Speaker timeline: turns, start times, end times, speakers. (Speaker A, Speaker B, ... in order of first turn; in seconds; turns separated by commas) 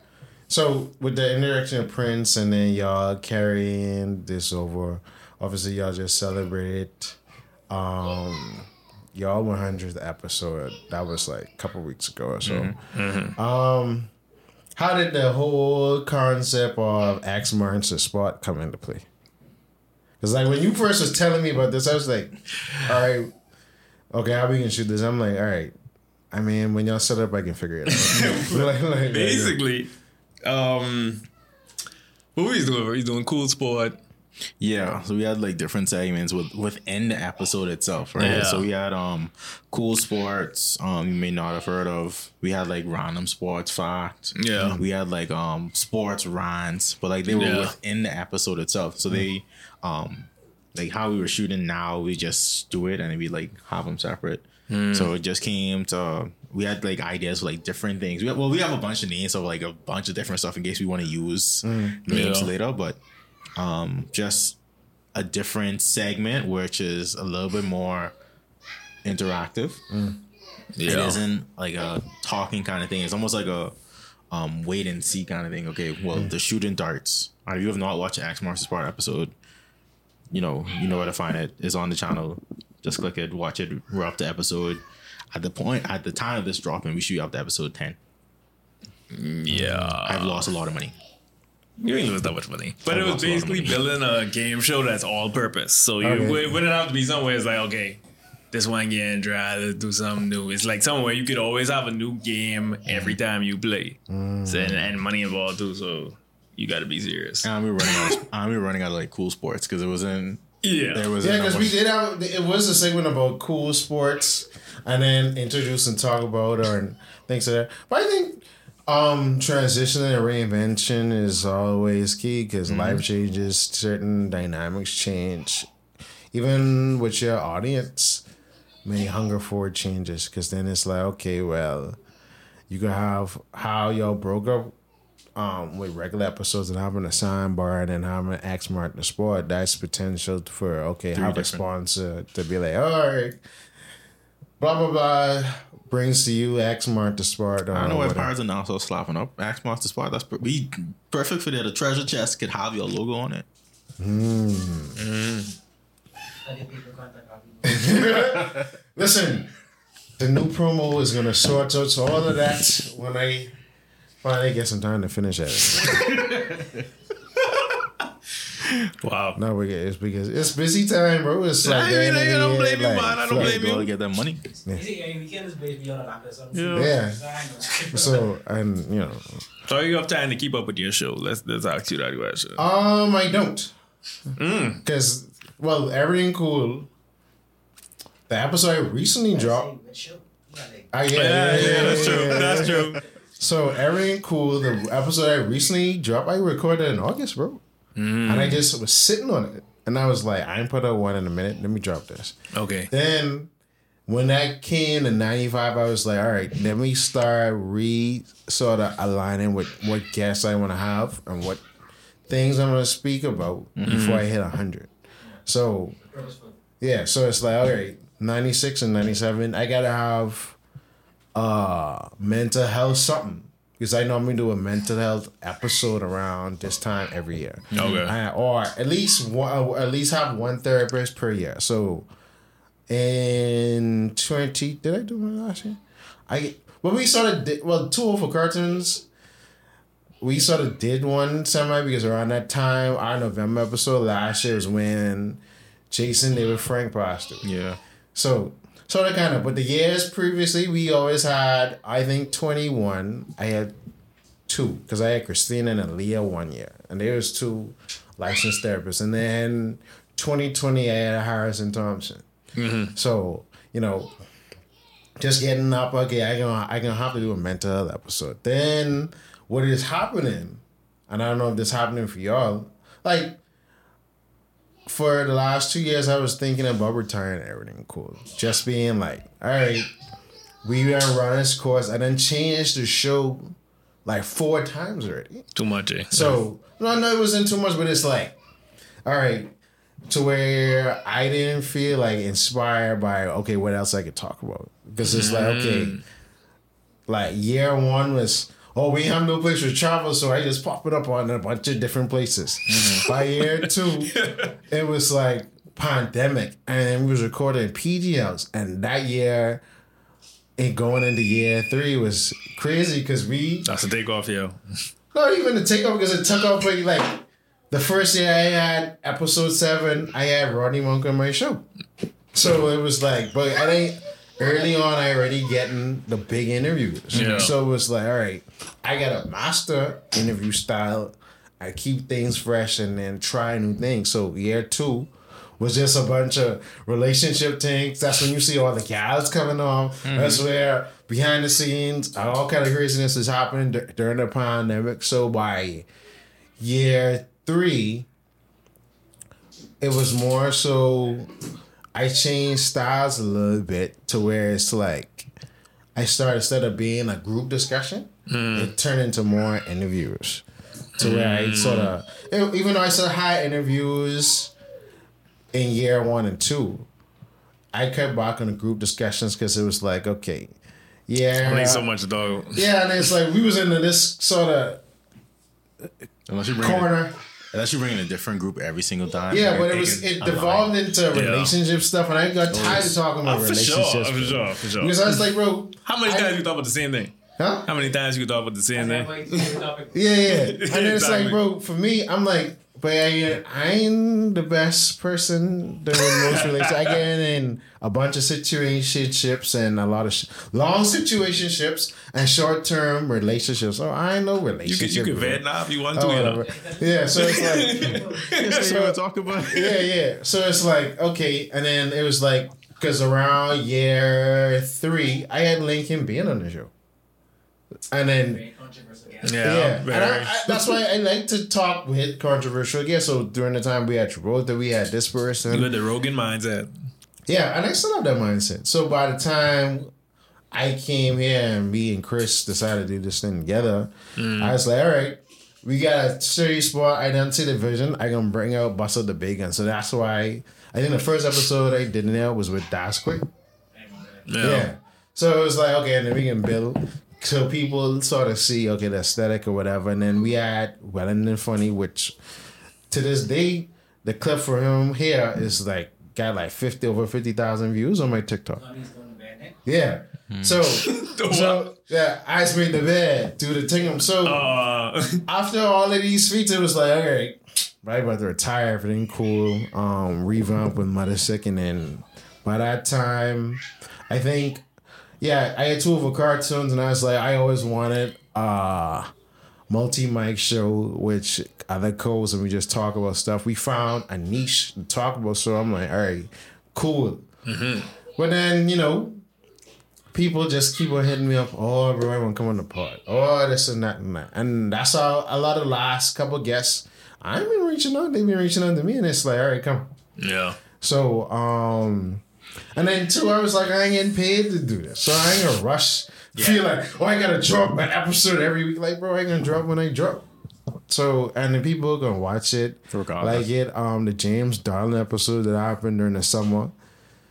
Speaker A: 0.5-7.2, Speaker A: 7.7-12.8, Speaker B: 12.4-12.8, Speaker C: 12.9-13.3, Speaker A: 13.3-14.1, Speaker A: 14.8-19.1, Speaker A: 20.2-23.3, Speaker A: 24.1-25.7, Speaker A: 26.3-29.6, Speaker C: 27.9-29.9, Speaker C: 30.4-31.3, Speaker C: 32.4-34.0, Speaker B: 34.6-63.0, Speaker A: 38.2-38.5, Speaker C: 38.2-38.7, Speaker C: 44.4-44.8, Speaker A: 44.6-44.9, Speaker C: 47.3-47.7, Speaker C: 54.7-55.1, Speaker A: 61.6-62.0, Speaker C: 62.1-62.5, Speaker B: 63.5-64.6, Speaker B: 65.1-68.1, Speaker B: 69.0-69.8, Speaker A: 69.9-70.2, Speaker C: 70.8-71.2, Speaker B: 70.8-73.7, Speaker B: 74.3-79.3, Speaker B: 80.3-88.0, Speaker C: 89.1-90.5, Speaker A: 89.5-90.0, Speaker B: 90.0-91.0, Speaker C: 91.8-108.2, Speaker A: 92.9-93.7, Speaker A: 96.0-96.6, Speaker A: 104.1-104.8, Speaker B: 107.4-110.4, Speaker C: 110.6-111.1, Speaker B: 110.9-111.7, Speaker A: 111.2-125.7, Speaker C: 122.7-123.0, Speaker A: 126.3-128.2, Speaker A: 128.8-132.0, Speaker A: 132.7-134.7, Speaker A: 135.3-143.4, Speaker B: 141.1-141.6, Speaker A: 144.6-148.3, Speaker B: 147.7-153.4, Speaker A: 154.0-155.0, Speaker B: 155.0-155.5, Speaker D: 156.4-158.2, Speaker A: 157.6-159.5, Speaker A: 160.2-163.5, Speaker A: 164.2-166.1, Speaker C: 165.8-166.5, Speaker C: 168.6-169.4, Speaker A: 169.3-173.6, Speaker C: 171.6-173.9, Speaker B: 173.3-174.4, Speaker D: 174.7-178.2, Speaker B: 176.5-176.9, Speaker A: 176.7-177.2, Speaker A: 177.9-179.4, Speaker C: 179.6-182.6, Speaker A: 182.6-183.7, Speaker C: 184.4-184.8, Speaker A: 184.8-186.9, Speaker A: 188.3-189.7, Speaker D: 189.3-190.9, Speaker A: 190.9-197.6, Speaker C: 191.1-193.0, Speaker C: 197.9-198.6, Speaker A: 198.2-202.3, Speaker C: 202.5-202.9, Speaker A: 202.9-203.5, Speaker A: 204.1-211.6, Speaker A: 212.3-214.9, Speaker C: 213.9-214.2, Speaker A: 215.4-216.0, Speaker D: 216.1-216.6, Speaker A: 216.8-220.6, Speaker A: 221.3-232.1, Speaker B: 227.7-228.1, Speaker C: 227.7-228.1, Speaker A: 232.9-239.1, Speaker A: 240.2-247.5, Speaker B: 247.4-247.8, Speaker A: 248.1-253.7, Speaker A: 254.5-262.2, Speaker C: 262.6-262.9, Speaker A: 262.9-264.1, Speaker A: 265.2-273.4, Speaker A: 274.9-279.9, Speaker A: 280.6-285.4, Speaker C: 285.5-286.4, Speaker A: 286.1-288.4, Speaker A: 289.0-289.5, Speaker A: 290.1-296.0, Speaker C: 295.0-296.0, Speaker A: 297.1-304.2, Speaker B: 302.7-303.0, Speaker C: 303.1-304.5, Speaker A: 304.7-309.6, Speaker A: 310.6-313.7, Speaker C: 313.6-314.6, Speaker A: 315.1-321.6, Speaker A: 322.3-345.9, Speaker C: 327.1-327.5, Speaker B: 340.0-340.4, Speaker A: 346.6-348.1, Speaker A: 349.8-351.3, Speaker A: 351.9-355.3, Speaker A: 355.9-360.4, Speaker C: 358.3-358.7, Speaker A: 361.0-364.5, Speaker C: 361.0-361.9, Speaker A: 365.5-366.9, Speaker A: 367.7-370.6, Speaker A: 371.1-371.9, Speaker C: 371.4-372.6, Speaker A: 372.5-374.8, Speaker B: 376.3-376.9, Speaker A: 376.6-377.2, Speaker B: 377.5-380.6, Speaker A: 379.3-386.4, Speaker C: 381.1-381.5, Speaker B: 382.5-382.9, Speaker C: 383.2-385.2, Speaker C: 385.8-387.1, Speaker A: 387.4-387.7, Speaker C: 387.6-389.6, Speaker D: 388.7-390.0, Speaker A: 389.9-416.7, Speaker C: 390.2-391.4, Speaker C: 396.0-397.0, Speaker C: 404.6-406.5, Speaker D: 406.4-408.4, Speaker C: 407.1-408.8, Speaker B: 408.4-409.9, Speaker A: 417.9-418.4, Speaker D: 418.2-419.6, Speaker C: 419.2-420.8, Speaker A: 419.4-425.7, Speaker C: 425.5-426.7, Speaker A: 427.3-429.9, Speaker A: 430.5-443.3, Speaker C: 434.1-434.6, Speaker D: 443.7-444.3, Speaker C: 444.3-444.7, Speaker A: 444.4-452.1, Speaker A: 452.9-458.6, Speaker D: 458.5-459.6, Speaker A: 459.6-464.4, Speaker B: 460.3-460.6, Speaker C: 460.7-461.7, Speaker C: 464.2-465.2, Speaker A: 465.3-474.6, Speaker A: 475.2-479.1, Speaker A: 479.7-487.2, Speaker C: 487.4-487.9, Speaker A: 488.1-489.2, Speaker A: 490.1-499.9, Speaker C: 500.2-500.6, Speaker A: 500.8-502.2, Speaker A: 502.7-510.3, Speaker B: 506.3-506.6, Speaker A: 510.9-516.7, Speaker B: 512.9-513.5